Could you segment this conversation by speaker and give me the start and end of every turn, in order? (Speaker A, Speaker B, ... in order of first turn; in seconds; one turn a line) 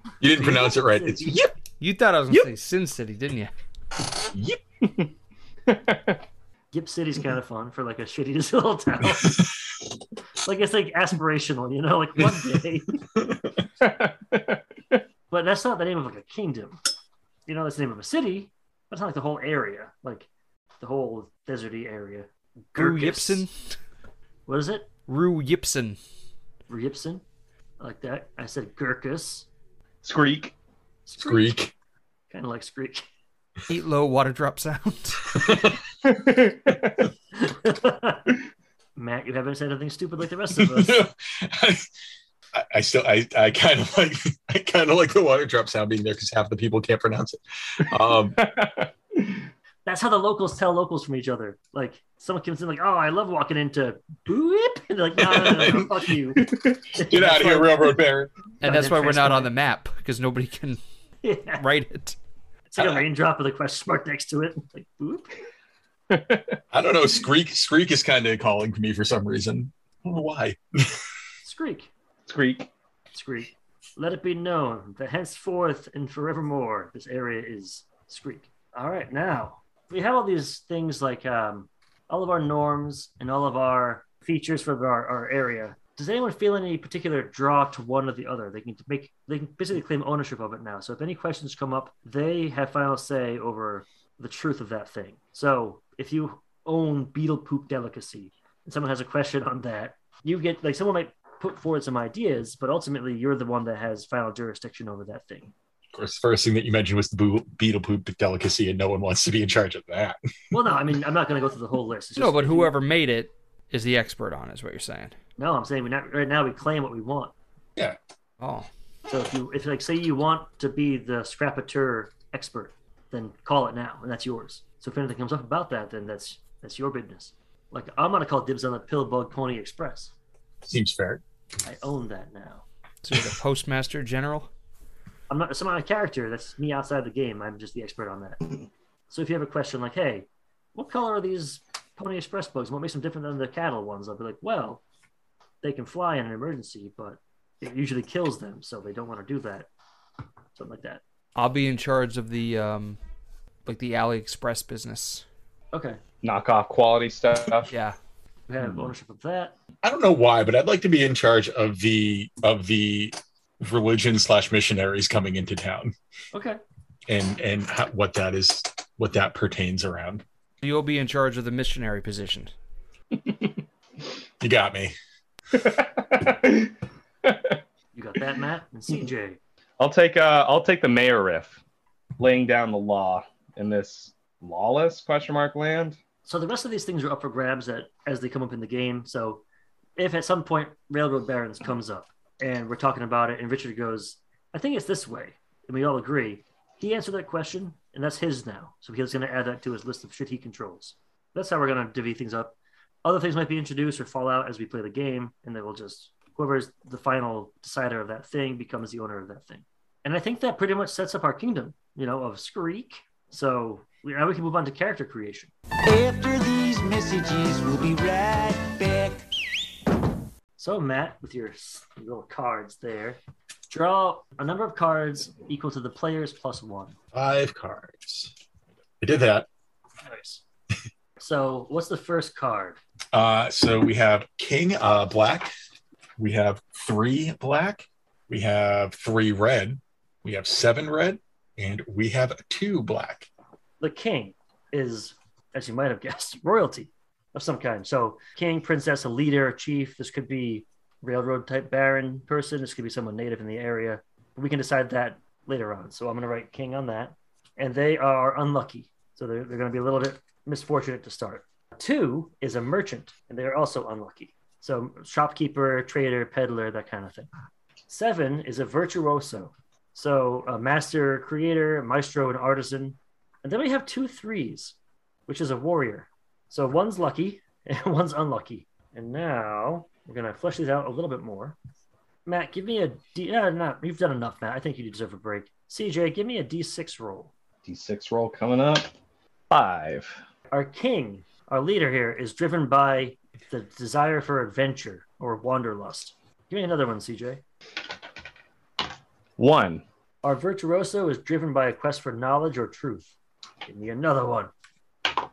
Speaker A: 0.2-1.5
Speaker B: 0.3-1.5
Speaker C: 1.8-3.5
Speaker A: 4.3-4.6
Speaker D: 5.7-6.2
Speaker B: 6.7-9.5
Speaker B: 10.4-13.0
Speaker D: 13.8-15.0
Speaker B: 15.3-16.8
Speaker B: 17.5-20.3
Speaker B: 20.8-23.4
Speaker C: 22.8-23.5
Speaker B: 24.5-24.9
Speaker C: 25.1-26.0
Speaker B: 26.7-27.2
Speaker B: 27.8-29.5
Speaker D: 30.0-30.6
Speaker B: 31.1-31.6
Speaker A: 31.2-31.7
Speaker B: 32.3-33.0
Speaker C: 33.7-35.4
Speaker A: 35.4-35.8
Speaker D: 36.0-37.0
Speaker B: 37.4-38.2
Speaker B: 39.0-41.0
Speaker A: 40.6-41.9
Speaker A: 42.5-48.4
Speaker D: 48.4-49.4
Speaker B: 49.9-58.0
Speaker A: 55.2-56.1
Speaker D: 56.4-56.8
Speaker A: 57.0-58.4
Speaker C: 58.6-60.8
Speaker B: 58.6-59.5
Speaker B: 61.2-61.7
Speaker C: 61.6-62.2
Speaker B: 62.7-65.4
Speaker D: 66.1-66.6
Speaker A: 66.7-71.0
Speaker B: 71.4-71.9
Speaker D: 72.3-72.7
Speaker B: 73.1-105.5
Speaker A: 105.9-110.2
Speaker B: 110.5-112.7
Speaker C: 112.2-115.2
Speaker B: 115.4-117.3
Speaker C: 118.4-118.7
Speaker B: 119.1-130.1
Speaker A: 130.6-131.2
Speaker B: 131.6-132.7
Speaker C: 133.0-134.5
Speaker B: 135.3-138.4
Speaker B: 139.1-144.8
Speaker B: 145.6-149.7
Speaker B: 150.6-151.0
Speaker C: 151.4-153.0
Speaker C: 153.7-155.2
Speaker B: 155.7-156.0
Speaker D: 156.2-157.7
Speaker C: 157.7-158.0
Speaker B: 158.5-159.5
Speaker A: 159.8-165.9
Speaker B: 166.3-166.6
Speaker A: 167.1-170.2
Speaker C: 170.6-172.5
Speaker D: 173.3-173.5
Speaker A: 174.4-174.9
Speaker D: 175.5-176.7
Speaker D: 177.2-177.6
Speaker B: 177.9-179.4
Speaker D: 179.8-181.6
Speaker D: 182.2-186.0
Speaker B: 186.3-189.4
Speaker B: 190.0-215.5
Speaker E: 215.8-219.2
Speaker B: 220.6-223.2
Speaker B: 223.7-227.0
Speaker A: 227.1-228.3
Speaker A: 229.0-229.5
Speaker B: 230.0-230.4
Speaker B: 231.2-232.8
Speaker A: 233.1-235.5
Speaker A: 236.2-243.3
Speaker B: 243.8-267.3
Speaker B: 267.9-274.8
Speaker B: 275.3-281.6
Speaker B: 282.3-287.3
Speaker D: 287.6-288.9
Speaker D: 289.5-290.2
Speaker B: 290.5-297.4
Speaker D: 299.4-299.8
Speaker B: 300.2-303.1
Speaker B: 303.7-304.5